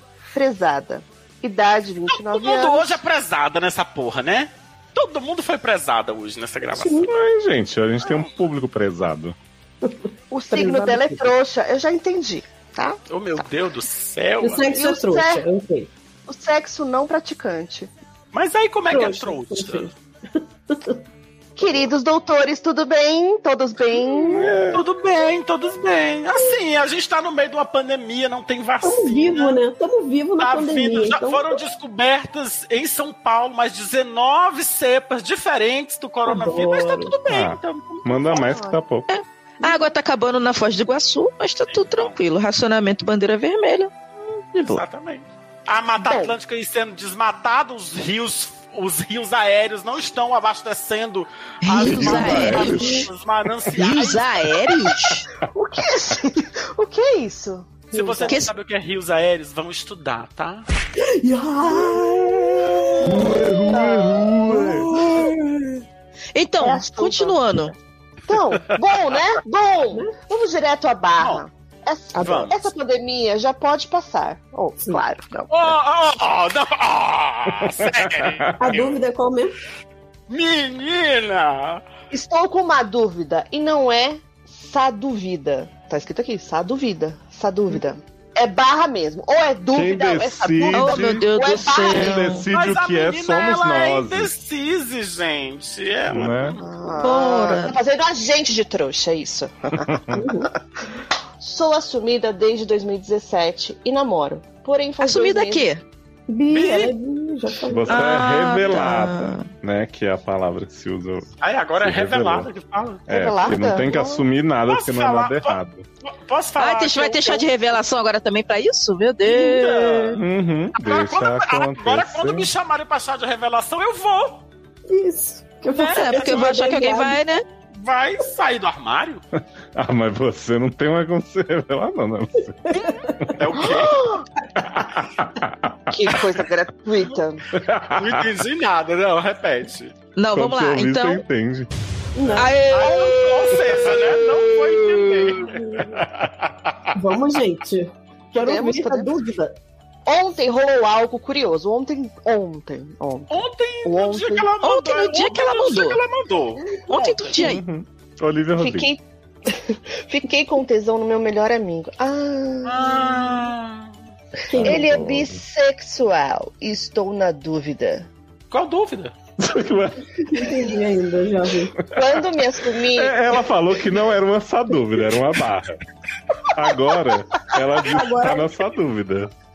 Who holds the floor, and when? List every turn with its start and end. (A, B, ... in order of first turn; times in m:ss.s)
0:00.3-0:03.0 A
0:02.1-0:07.1 B
0:06.8-0:07.1 C
0:06.9-0:09.3 D
0:10.3-0:13.4 A
0:10.5-0:11.3 C
0:13.1-0:14.8 B
0:14.4-0:15.9 C
0:14.8-0:15.4 A
0:16.3-0:17.9 A
0:18.3-0:19.9 B
0:18.9-0:19.9 C
0:20.7-0:21.0 C
0:21.6-0:24.5 A
0:24.1-0:24.8 D
0:24.7-0:29.6 B
0:28.8-0:31.6 C
0:30.4-0:38.5 B
0:36.2-0:37.1 C
0:37.3-0:39.1 D
0:38.3-0:38.7 A
0:39.1-0:43.9 E
0:41.7-0:42.2 B
0:44.5-0:44.8 E
0:44.6-0:54.6 B
0:46.0-0:46.3 A
0:51.6-0:53.0 E
0:51.9-0:52.8 D
0:53.8-0:55.3 E
0:55.5-0:58.4 A
0:57.9-1:00.6 B
0:57.9-0:58.2 C
0:58.2-0:58.5 E
1:01.2-1:05.6 C
1:03.0-1:04.9 D
1:03.7-1:04.1 A
1:06.3-1:07.7 E
1:06.6-1:07.6 A
1:08.3-1:15.7 A
1:12.1-1:12.4 C
1:12.2-1:12.6 B
1:14.5-1:15.0 C
1:15.5-1:19.0 B
1:17.7-1:18.4 D
1:18.6-1:19.5 C
1:20.3-1:21.8 B
1:22.1-1:32.4 A
1:29.7-1:34.3 D
1:30.7-1:32.5 E
1:32.5-1:36.6 B
1:36.1-1:36.6 D
1:36.5-1:40.4 A
1:37.0-1:37.8 E
1:39.9-1:40.1 D
1:40.1-1:40.5 C
1:41.4-1:45.7 A
1:45.0-1:45.8 E
1:46.3-1:47.9 C
1:46.5-1:46.9 B
1:47.7-1:52.5 D
1:47.9-1:49.5 E
1:51.4-1:53.0 B
1:53.1-1:54.2 A
1:53.1-1:55.8 D
1:54.7-1:57.8 B
1:56.6-2:00.2 E
1:59.3-2:00.2 B
2:00.2-2:02.5 D
2:00.8-2:04.4 B
2:04.9-2:07.2 C
2:05.8-2:06.5 B
2:05.8-2:07.4 E
2:07.7-2:09.2 B
2:09.8-2:12.7 D
2:12.7-2:13.1 C
2:13.4-2:14.1 B
2:13.6-2:14.2 A
2:14.6-2:16.2 D
2:15.9-2:17.4 A
2:17.5-2:18.3 D
2:17.9-2:19.9 B
2:20.2-2:21.2 E
2:20.3-2:21.7 D
2:22.1-2:22.5 C
2:22.4-2:23.0 E
2:22.7-2:26.9 B
2:22.8-2:23.7 A
2:26.9-2:29.5 C
2:28.3-2:29.1 A
2:30.0-2:34.5 A
2:33.3-2:36.6 B
2:34.6-2:36.0 E
2:36.9-2:37.6 E
2:36.9-2:37.4 C
2:37.4-2:38.9 D
2:38.6-2:43.3 A
2:42.6-2:43.9 B
2:44.5-2:44.9 C
2:44.5-2:45.4 D
2:44.6-2:48.1 A
2:48.5-2:49.1 B
2:49.4-2:50.4 D
2:50.2-2:51.7 C
2:51.8-2:52.2 D
2:51.9-2:53.2 A
2:52.9-2:55.8 D
2:56.5-2:59.3 D
2:57.8-2:58.5 C